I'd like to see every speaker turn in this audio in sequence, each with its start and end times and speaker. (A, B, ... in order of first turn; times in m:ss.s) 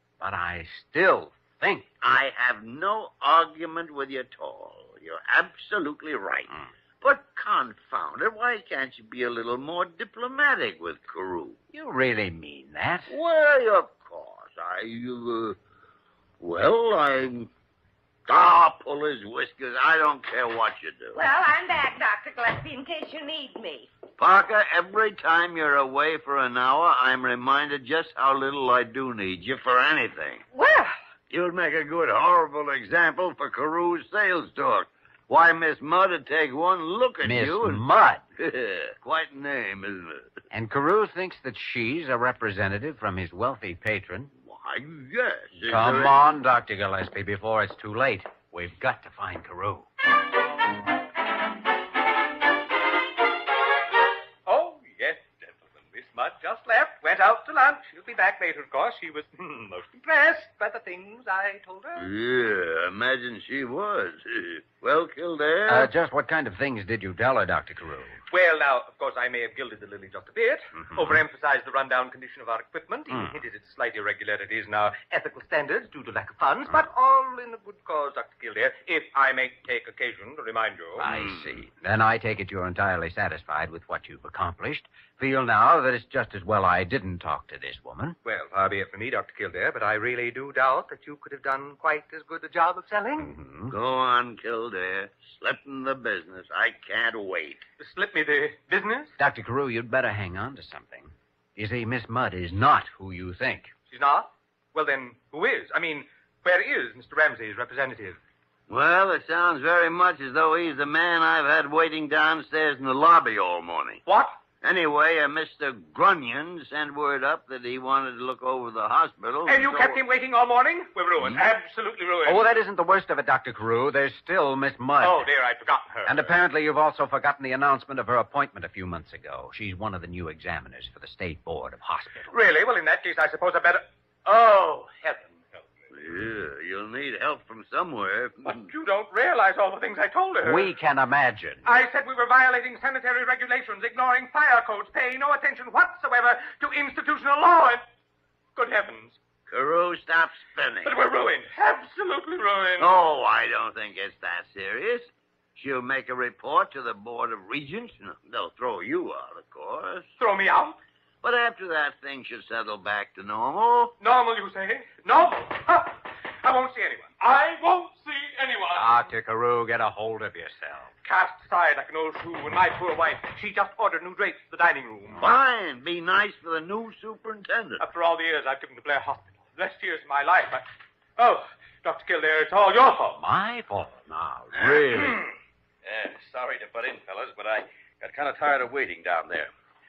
0:00.2-0:01.9 A
0:02.0-0:06.5 B
0:07.0-0:11.6 B
0:11.7-0:13.1 A
0:13.1-0:15.6 B
0:16.4-0:17.5 B
0:18.3-0:21.2 B
0:21.1-0:23.9 C
0:24.2-0:30.4 B
0:30.5-0:31.0 C
0:31.3-0:37.8 B
0:37.2-0:38.2 A
0:38.4-0:40.2 B
0:40.5-0:44.3 A
0:44.4-0:46.1 B
0:45.7-0:49.9 A
0:54.4-1:02.1 D
1:02.0-1:05.9 B
1:05.7-1:08.2 A
1:08.3-1:21.1 D
1:21.0-1:28.2 A
1:28.2-1:33.3 D
1:33.2-1:33.7 A
1:33.7-1:37.6 B
1:37.8-1:39.1 D
1:39.2-1:43.7 A
1:43.9-1:48.2 D
1:48.7-1:54.0 B
1:54.0-1:54.3 D
1:54.6-2:00.0 B
1:59.4-2:02.6 D
2:02.2-2:05.3 A
2:05.0-2:06.3 D
2:06.0-2:12.3 A
2:12.3-2:15.7 D
2:15.9-2:18.6 B
2:18.4-2:20.7 D
2:20.4-2:21.6 A
2:21.6-2:27.8 D
2:28.6-2:29.2 D
2:29.5-2:30.9 B
2:30.8-2:33.0 D
2:32.8-2:40.1 B
2:40.2-2:40.8 D
2:41.2-2:43.9 B
2:44.0-2:48.9 D
2:48.7-2:50.9 A
2:51.0-2:55.2 D
2:55.2-2:57.8 B
2:57.8-3:00.6 D
3:01.2-3:03.2 D
3:03.2-3:05.2 A
3:05.8-3:09.5 E